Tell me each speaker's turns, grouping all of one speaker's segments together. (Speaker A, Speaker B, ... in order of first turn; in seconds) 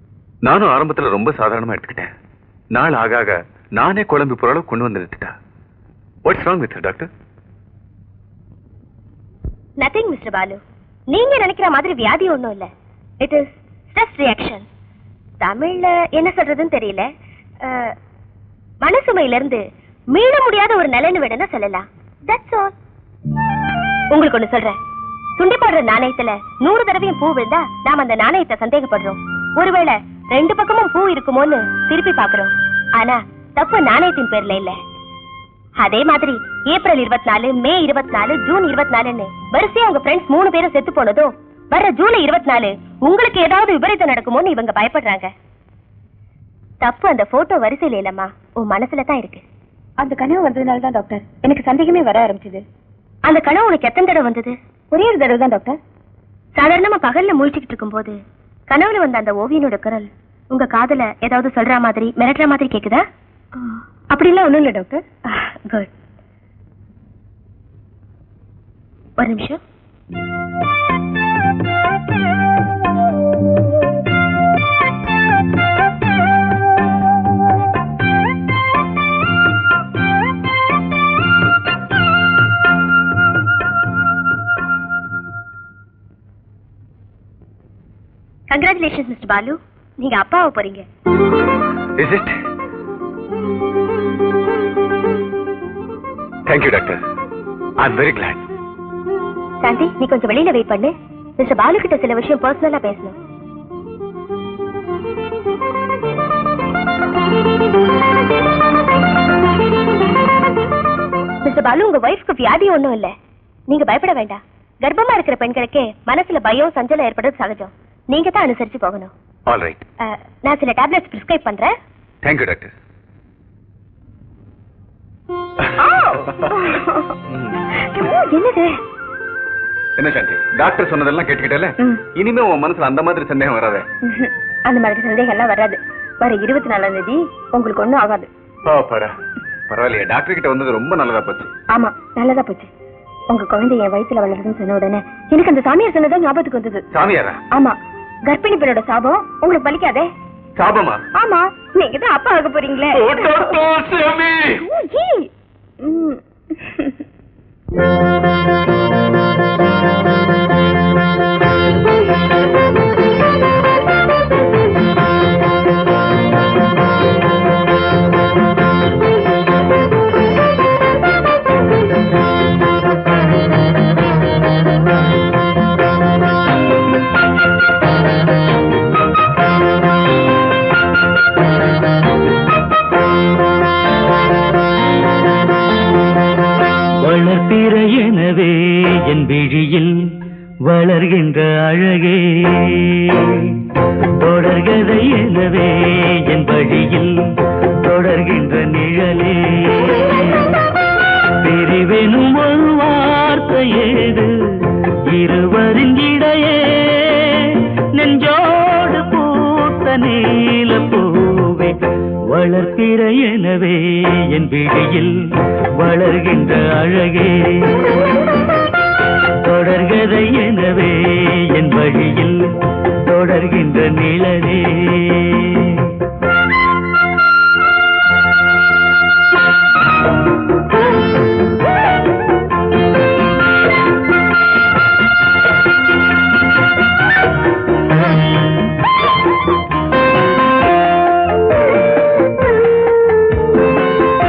Speaker A: 0.4-2.1, 2.7-5.3, 6.2-7.1, 92.0-92.3, 96.5-97.0, 97.8-98.4, 119.5-119.8, 122.2-122.7, 130.0-133.8, 138.7-139.1, 139.7-141.5, 146.9-147.4, 150.6-151.0, 152.9-154.5
Speaker B: 9.8-10.6, 11.1-12.7, 13.2-14.7, 15.4-17.1, 17.6-17.9, 18.8-19.6, 20.1-22.7, 24.1-24.8, 25.4-34.8, 35.8-45.3, 46.8-49.4, 53.2-54.5, 56.6-58.1, 58.7-63.0, 65.3-65.9, 69.2-69.6, 88.5-90.8, 99.6-103.1, 111.4-113.1, 113.7-119.1, 120.0-121.7
Speaker C: 50.0-52.6, 54.9-55.8, 64.1-65.0, 125.8-127.1, 127.9-128.7, 134.1-138.3, 141.7-142.7, 143.3-146.8, 148.3-150.1, 151.2-153.6, 154.6-155.3, 155.8-156.9
Speaker D: 187.0-189.9, 190.7-193.6, 194.2-197.2, 197.8-200.5, 201.4-211.7, 212.3-215.1, 215.8-217.9, 219.4-222.4, 223.0-225.9